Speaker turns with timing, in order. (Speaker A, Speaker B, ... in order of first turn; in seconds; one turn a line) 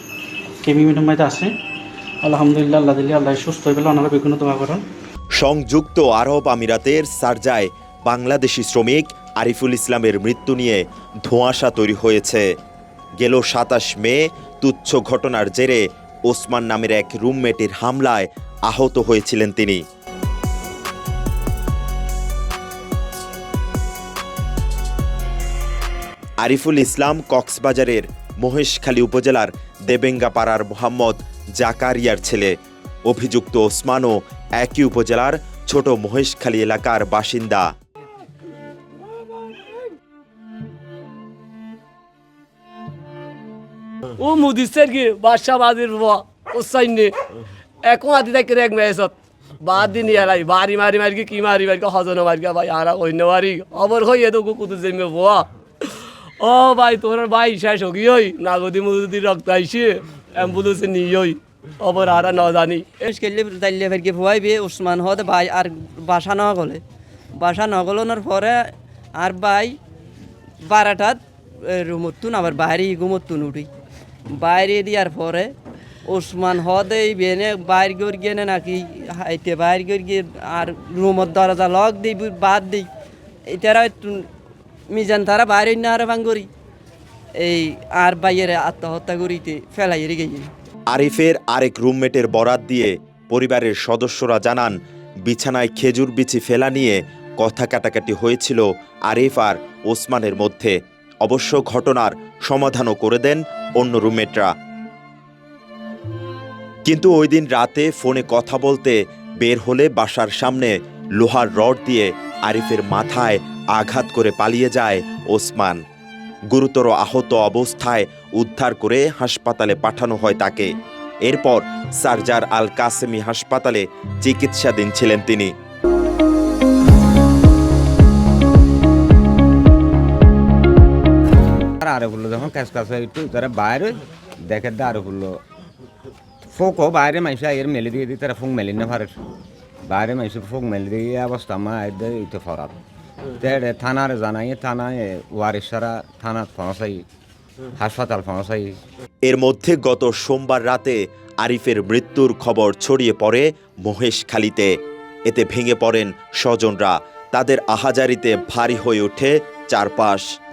Speaker A: 0.6-1.5
Speaker A: 2.2-4.8
Speaker B: 5.4-12.5
Speaker B: 13.2-19.8
Speaker B: 26.4-32.5
Speaker B: 33.0-37.7
Speaker C: 44.2-47.1
Speaker C: 47.8-62.8
Speaker D: 63.0-66.8
Speaker D: 67.4-68.6
Speaker D: 69.2-69.8
Speaker D: 70.6-73.7
Speaker D: 74.3-75.5
Speaker D: 76.0-82.9
Speaker D: 83.5-84.3
Speaker D: 84.9-86.5
Speaker D: 87.4-90.5
Speaker B: 90.9-104.5
Speaker B: 106.8-115.8
Speaker B: 116.5-120.7
Speaker B: 121.2-125.5
Speaker E: 131.8-135.4
Speaker E: 136.4-139.2
Speaker E: 139.8-142.8
Speaker E: 143.4-147.1
Speaker E: 147.8-148.8
Speaker B: 149.2-160.2